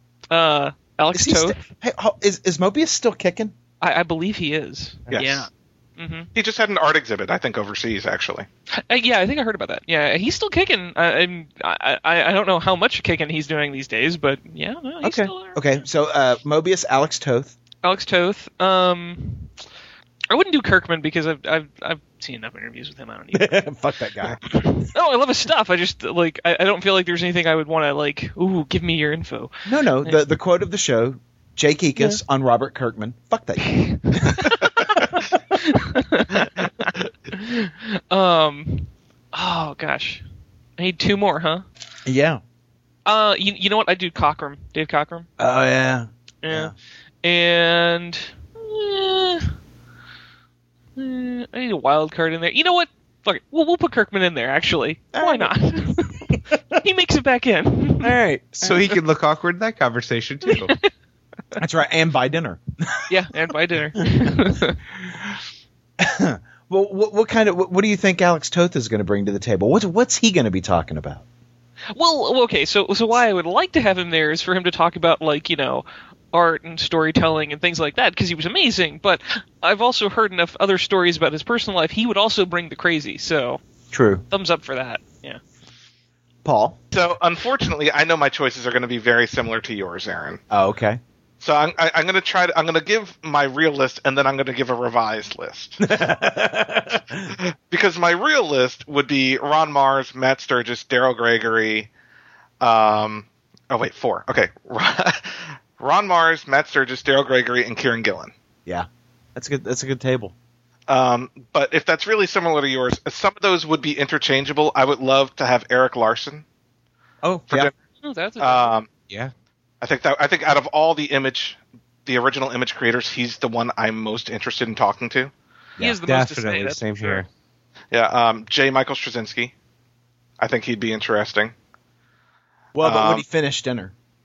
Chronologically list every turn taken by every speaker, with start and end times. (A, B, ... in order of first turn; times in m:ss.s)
0:00.3-0:01.7 A
0:01.1-0:03.5 B
0:03.8-0:06.3 A
0:05.1-0:05.5 C
0:06.4-0:08.5 C
0:08.9-0:15.6 A
0:15.0-0:17.6 B
0:17.8-0:19.5 A
0:20.3-0:23.7 A
0:23.3-0:24.9 B
0:24.3-0:30.2 A
0:29.7-0:35.4 B
0:33.7-0:34.6 A
0:35.6-0:40.2 A
0:40.8-0:41.6 A
0:42.1-0:42.4 B
0:43.1-0:45.3 A
0:45.4-0:46.7 B
0:46.4-0:49.5 A
0:51.0-0:56.3 A
0:55.1-0:55.5 B
0:56.3-0:56.8 B
0:56.8-0:58.2 A
0:58.0-0:59.0 B
0:58.6-1:00.7 D
1:00.5-1:00.9 A
1:01.6-1:03.1 B
1:03.1-1:04.8 A
1:06.0-1:11.2 B
1:11.9-1:23.6 A
1:23.9-1:24.2 B
1:24.3-1:25.4 A
1:26.4-1:26.8 B
1:26.9-1:30.4 C
1:30.5-1:31.0 B
1:31.4-1:35.8 C
1:35.8-1:37.4 B
1:37.3-1:41.9 C
1:42.6-1:48.3 C
1:48.7-1:50.3 B
1:50.9-1:56.4 C
1:57.2-1:57.7 B
1:58.0-1:58.7 A
1:58.4-1:58.9 C
1:59.8-2:05.3 C
2:05.8-2:07.2 A
2:06.0-2:07.3 D
2:07.9-2:09.5 C
2:10.4-2:11.5 C
2:12.8-2:13.9 B
2:12.8-2:13.2 C